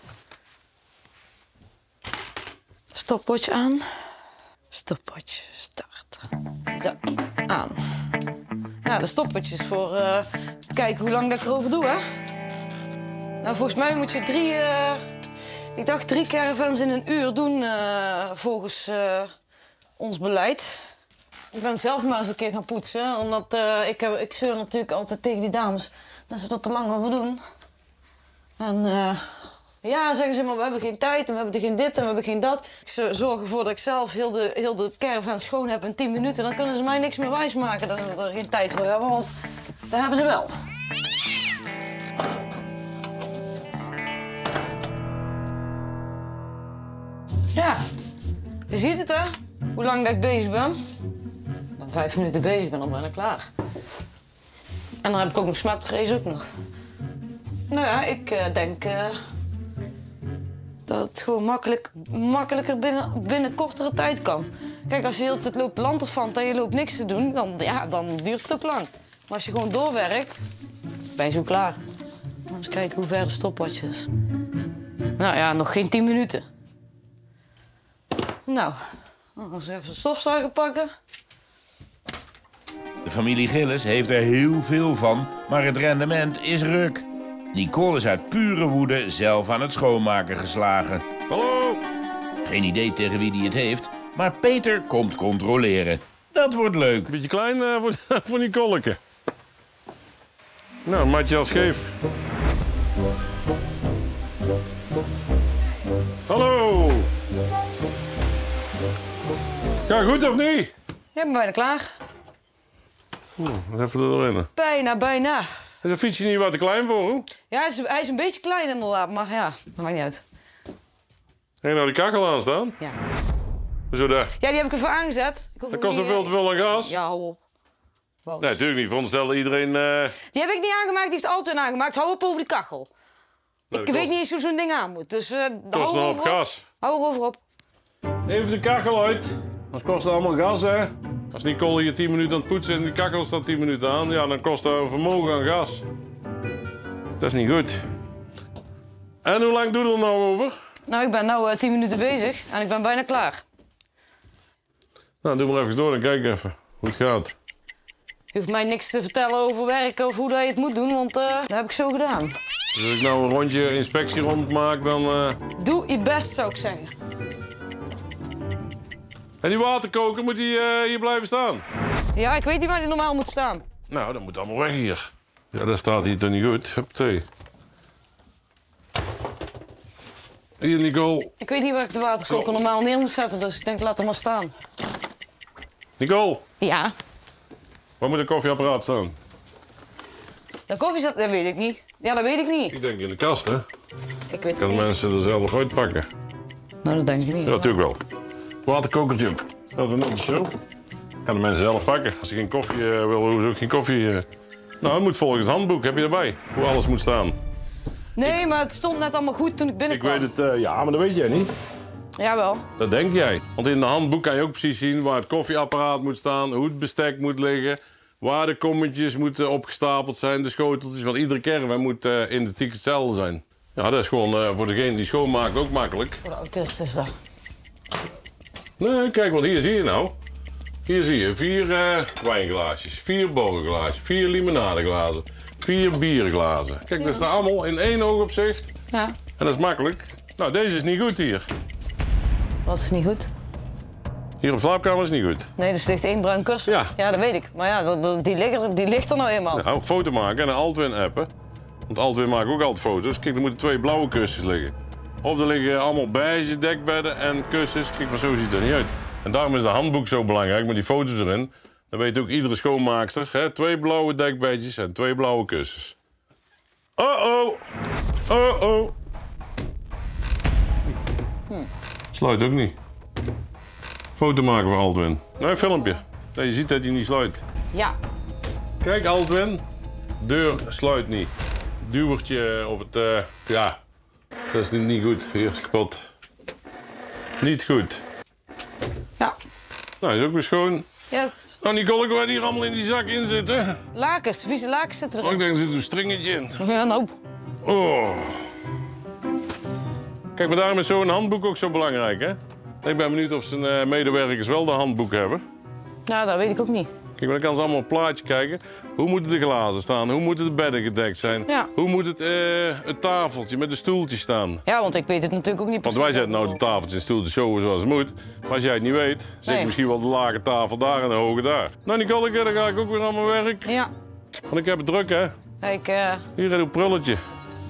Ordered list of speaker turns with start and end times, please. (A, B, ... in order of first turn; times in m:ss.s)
0:02.9-0:03.8 A
0:04.7-0:07.8 A
0:08.8-0:12.0 A
0:13.4-0:15.0 A
0:15.7-0:19.3 A
0:20.0-0:20.7 A
0:21.5-0:27.4 A
0:28.6-0:39.3 A
0:39.9-0:40.5 A
0:47.5-0:47.8 A
0:48.7-0:50.8 A
0:51.8-0:53.5 A
0:55.0-0:56.5 A
0:57.7-0:59.1 A
1:00.9-1:10.5 A
1:11.1-1:11.8 A
1:12.5-1:14.1 A
1:15.2-1:16.4 A
1:18.4-1:18.7 A
1:19.4-1:20.9 A
1:23.0-1:31.0 B
1:31.3-1:31.8 C
1:32.4-1:37.1 B
1:37.1-1:39.0 C
1:40.8-1:42.0 C
1:46.3-1:47.1 C
1:49.9-1:50.7 C
1:51.1-1:51.9 A
1:53.4-1:54.5 C
1:54.6-1:55.5 A
1:55.8-1:57.3 C
1:57.5-2:00.2 A
2:01.6-2:02.8 C
2:03.9-2:04.3 C
2:04.4-2:07.4 A
2:05.7-2:07.0 C
2:08.2-2:08.6 A
2:08.4-2:10.2 C
2:10.3-2:12.9 A
2:13.7-2:14.1 C
2:13.7-2:17.4 A
2:15.7-2:16.6 C
2:18.2-2:25.8 C
2:27.2-2:27.8 C
2:29.2-2:30.6 C
2:30.8-2:33.4 A
2:35.2-2:37.3 C
2:38.3-2:42.4 A
2:42.7-2:45.4 C
2:45.6-2:46.9 A
2:49.4-2:51.6 C
2:52.1-2:53.6 A
2:53.9-2:57.2 C
3:00.6-3:01.3 C
3:01.4-3:04.5 A
3:02.3-3:02.5 C
3:06.0-3:06.4 C
3:06.6-3:06.9 A
3:08.0-3:09.2 C
3:10.7-3:12.8 A
3:12.7-3:13.6 C
3:14.3-3:14.8 A
3:14.6-3:16.1 C
3:16.8-3:17.6 A
3:17.4-3:18.0 C
3:18.6-3:20.5 C
3:21.2-3:24.2 C
3:24.8-3:27.4 C
3:28.2-3:30.3 A
3:29.9-3:31.5 C
3:32.2-3:32.6 A
3:32.8-3:46.2 C
3:46.2-3:47.1 A
3:48.8-3:50.1 C
3:50.8-3:58.7 C
3:57.0-3:57.2 A
3:58.9-3:59.2 A
3:59.4-4:01.5 C
4:02.6-4:03.3 A
4:04.4-4:05.5 C
4:05.6-4:09.6 A
4:06.7-4:06.9 C
4:09.5-4:11.3 C
4:11.9-4:25.9 C
4:27.0-4:27.6 C
4:28.3-4:28.9 C
4:32.1-4:32.8 C
4:34.2-4:37.4 C
4:38.8-4:39.6 C
4:40.2-4:43.8 C
4:44.5-4:46.1 C
4:47.4-4:48.0 C
4:50.0-4:50.9 C
4:51.1-4:51.6 A
4:51.6-4:53.8 C
4:53.9-4:55.4 A
4:55.2-4:56.6 C
4:56.6-4:57.1 A
4:57.6-4:58.5 C
5:00.3-5:05.4 C
5:06.0-5:06.9 A
5:07.2-5:14.6 C
5:14.6-5:16.6 A
5:15.8-5:23.7 C
5:19.4-5:19.7 A
5:23.6-5:23.9 A
5:24.5-5:25.3 C
5:25.6-5:26.2 A
5:26.4-5:27.2 C